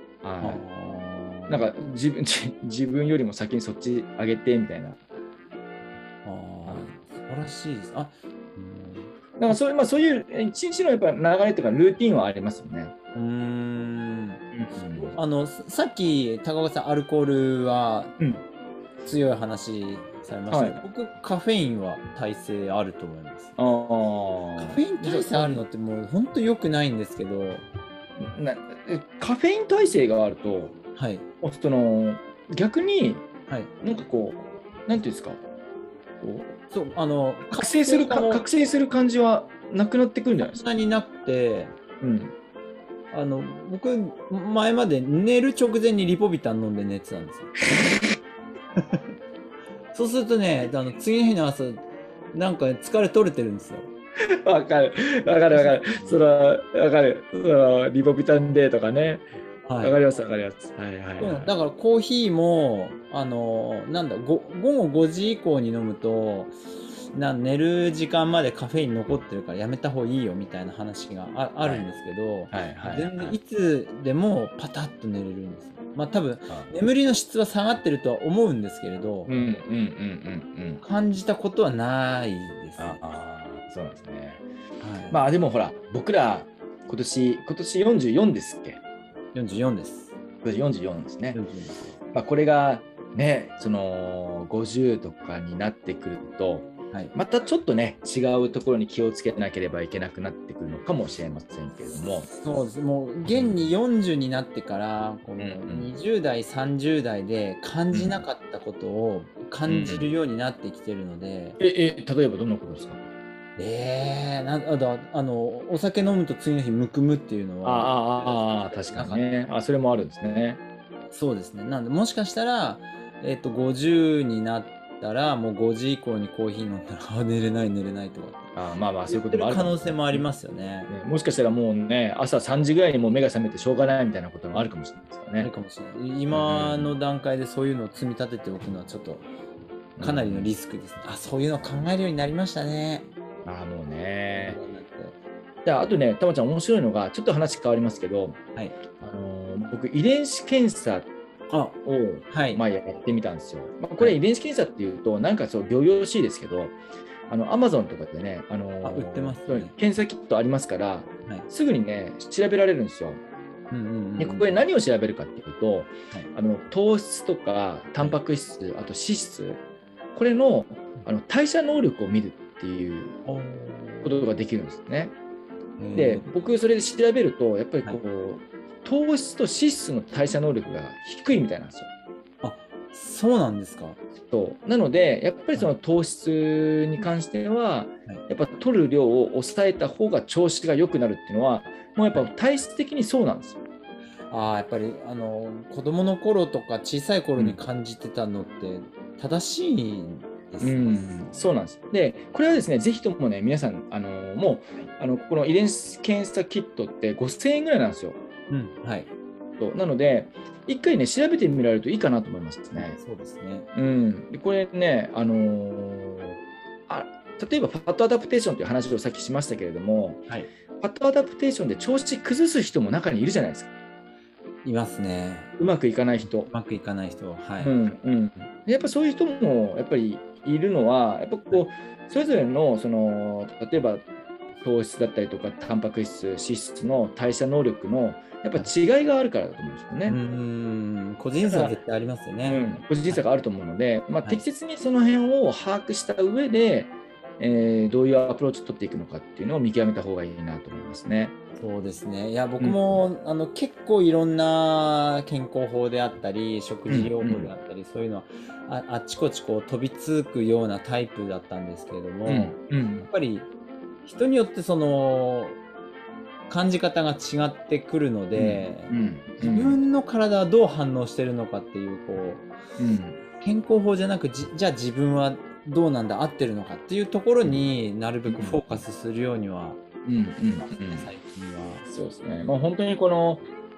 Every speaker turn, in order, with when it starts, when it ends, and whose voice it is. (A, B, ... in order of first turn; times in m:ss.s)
0:00.2-0:00.6 A
0:00.4-0:01.7 B
0:01.5-0:05.0 A
0:06.2-0:09.6 B
0:06.7-0:06.9 A
0:09.4-0:12.9 A
0:13.1-0:18.2 B
0:14.5-0:15.1 A
0:18.2-0:18.4 A
0:19.0-0:23.6 B
0:20.5-0:20.8 A
0:23.6-0:25.6 A
0:24.6-0:27.6 B
0:28.2-0:30.8 A
0:31.0-0:31.2 B
0:31.4-0:33.3 A
0:33.8-0:35.4 A
0:36.2-0:36.5 A
0:36.7-0:38.4 B
0:37.5-0:40.6 A
0:40.4-0:41.7 B
0:42.0-0:42.3 A
0:43.1-0:47.6 B
0:47.7-0:48.0 A
0:48.8-0:49.1 B
0:49.9-0:51.8 B
0:52.3-0:53.9 B
0:54.2-0:59.2 A
0:55.5-0:56.2 B
0:59.6-1:00.0 B
0:59.8-1:01.5 A
1:01.2-1:06.6 B
1:07.1-1:19.4 B
1:11.6-1:11.9 A
1:12.5-1:13.4 A
1:19.3-1:20.8 A
1:20.8-1:23.0 B
1:22.8-1:24.4 A
1:24.8-1:25.2 B
1:25.1-1:28.8 A
1:29.3-1:30.1 B
1:30.4-1:31.4 A
1:31.3-1:32.0 B
1:32.1-1:42.3 A
1:42.0-1:51.6 B
1:43.3-1:43.6 A
1:45.4-1:45.9 A
1:47.9-1:48.2 A
1:49.7-1:50.1 A
1:51.6-1:53.0 A
1:53.6-1:59.2 B
1:57.6-2:00.6 A
2:01.1-2:08.5 B
2:08.5-2:10.2 A
2:09.0-2:10.9 B
2:10.9-2:15.5 A
2:15.4-2:19.2 B
2:16.3-2:16.9 A
2:20.0-2:20.5 A
2:20.0-2:23.1 B
2:23.4-2:24.6 A
2:24.3-2:25.2 B
2:25.6-2:28.4 A
2:29.0-2:31.1 A
2:31.5-2:32.6 B
2:31.8-2:36.8 A
2:37.3-2:43.2 A
2:38.8-2:39.7 B
2:43.7-2:44.6 B
2:44.2-2:49.6 A
2:50.1-2:53.2 A
2:53.2-2:54.2 B
2:54.0-2:55.2 A
2:55.8-2:56.3 B
2:55.9-3:01.9 A
3:02.4-3:04.0 B
3:04.2-3:13.6 A
3:14.3-3:21.2 B
3:20.6-3:28.2 A
3:28.5-3:29.1 B
3:29.6-3:33.0 A
3:32.8-3:33.7 B
3:33.7-3:40.2 A
3:40.8-3:43.7 A
3:44.6-3:45.5 B
3:45.6-3:46.5 A
3:46.4-3:47.7 B
3:47.6-3:54.0 A
3:54.6-4:00.2 A
4:00.0-4:03.2 B
4:01.4-4:01.8 A
4:02.5-4:11.3 A
4:11.6-4:23.5 B
4:12.6-4:13.0 A
4:16.9-4:17.5 A
4:22.2-4:23.1 A
4:24.0-4:25.6 B
4:26.5-4:32.5 B
4:28.3-4:29.8 A
4:32.8-4:33.2 A
4:33.4-4:39.8 B
4:38.3-4:38.8 A
4:40.0-4:41.1 A
4:40.6-4:41.8 B
4:41.9-4:43.4 A